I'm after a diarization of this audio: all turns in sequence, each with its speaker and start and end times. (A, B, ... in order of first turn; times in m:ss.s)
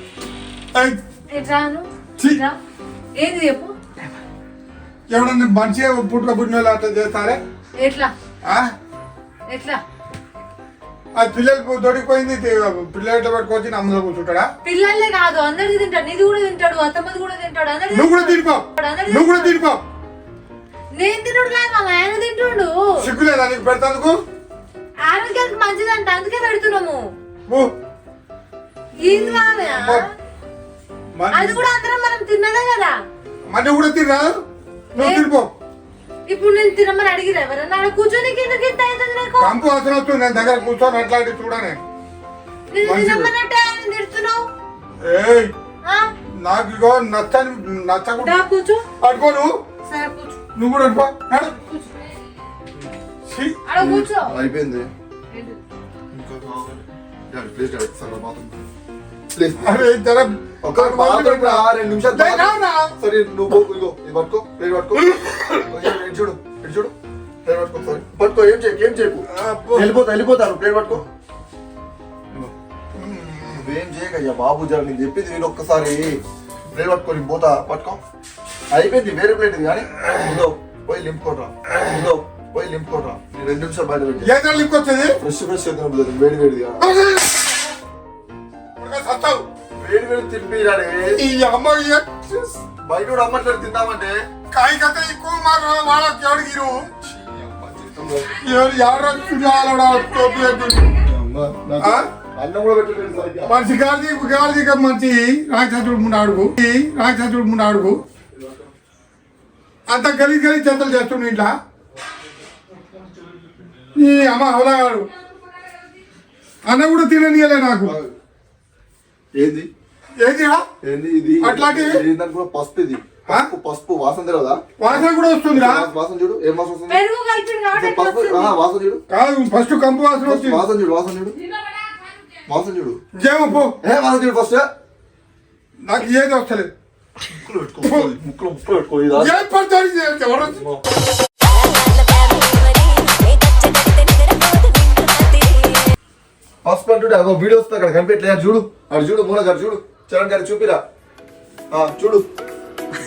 0:00.7-0:01.0 A
0:01.3-0:02.6 B
0:02.2-0:02.4 A
0:03.2-0:03.7 B
0:05.1-0:07.4 A
0:07.8-0:08.1 B
0:08.4-0:08.8 A
0:09.5-0:09.8 B
0:11.2-0:14.5 A
0:14.6-0:19.7 B
0:17.9-0:19.8 A
0:20.9-0:23.1 B
0:23.0-0:24.2 A
0:25.0-0:27.1 B
0:29.0-0:30.0 B
0:29.0-0:30.0 A
0:31.2-0:31.6 A
0:31.3-0:33.0 B
0:33.5-0:34.4 A
0:35.0-0:35.5 A
0:35.0-0:35.3 B
0:36.3-0:39.6 B
0:39.4-0:41.8 A
0:42.7-0:44.5 B
0:42.8-0:43.3 A
0:45.0-0:45.5 A
0:45.8-0:46.1 B
0:46.4-0:48.3 A
0:48.2-0:48.8 B
0:49.0-0:49.5 A
0:49.8-0:50.4 B
0:50.6-0:51.5 A
0:51.5-0:51.9 B
0:53.3-0:53.6 A
0:53.7-0:54.3 B
0:53.8-0:54.9 C
0:55.3-0:55.6 B
0:56.1-0:58.7 C
0:59.3-1:00.0 C
0:59.6-1:02.9 A
1:00.6-1:06.9 C
1:05.0-1:05.7 A
1:07.4-1:11.0 C
1:09.3-1:10.0 A
1:13.0-1:13.7 A
1:13.5-1:16.2 C
1:16.7-1:18.0 C
1:18.7-1:24.4 C
1:24.2-1:25.2 A
1:25.2-1:27.0 C
1:26.8-1:27.5 A
1:28.8-1:29.5 A
1:29.8-1:31.2 C
1:31.2-1:32.4 A
1:32.3-1:34.2 C
1:34.5-1:36.9 A
1:37.0-1:38.4 C
1:38.4-1:40.9 A
1:38.7-1:41.1 B
1:41.0-1:43.6 C
1:41.8-1:42.1 A
1:43.5-1:48.0 A
1:49.9-1:51.5 A
1:54.0-1:55.1 A
1:56.7-1:58.0 A
1:57.8-1:58.1 C
1:59.4-1:59.7 C
2:00.2-2:00.6 A
2:00.8-2:07.0 C
2:01.4-2:02.1 A
2:04.8-2:05.9 A
2:06.9-2:08.6 B
2:07.7-2:09.0 C
2:09.1-2:10.7 A
2:10.2-2:11.4 C
2:12.5-2:13.0 C
2:13.2-2:13.8 A
2:13.8-2:14.6 C
2:15.8-2:16.7 A
2:17.3-2:19.4 C
2:17.8-2:18.1 A
2:19.2-2:20.6 A
2:20.5-2:20.8 C
2:21.7-2:25.6 B
2:26.6-2:30.8 C
2:31.7-2:32.3 C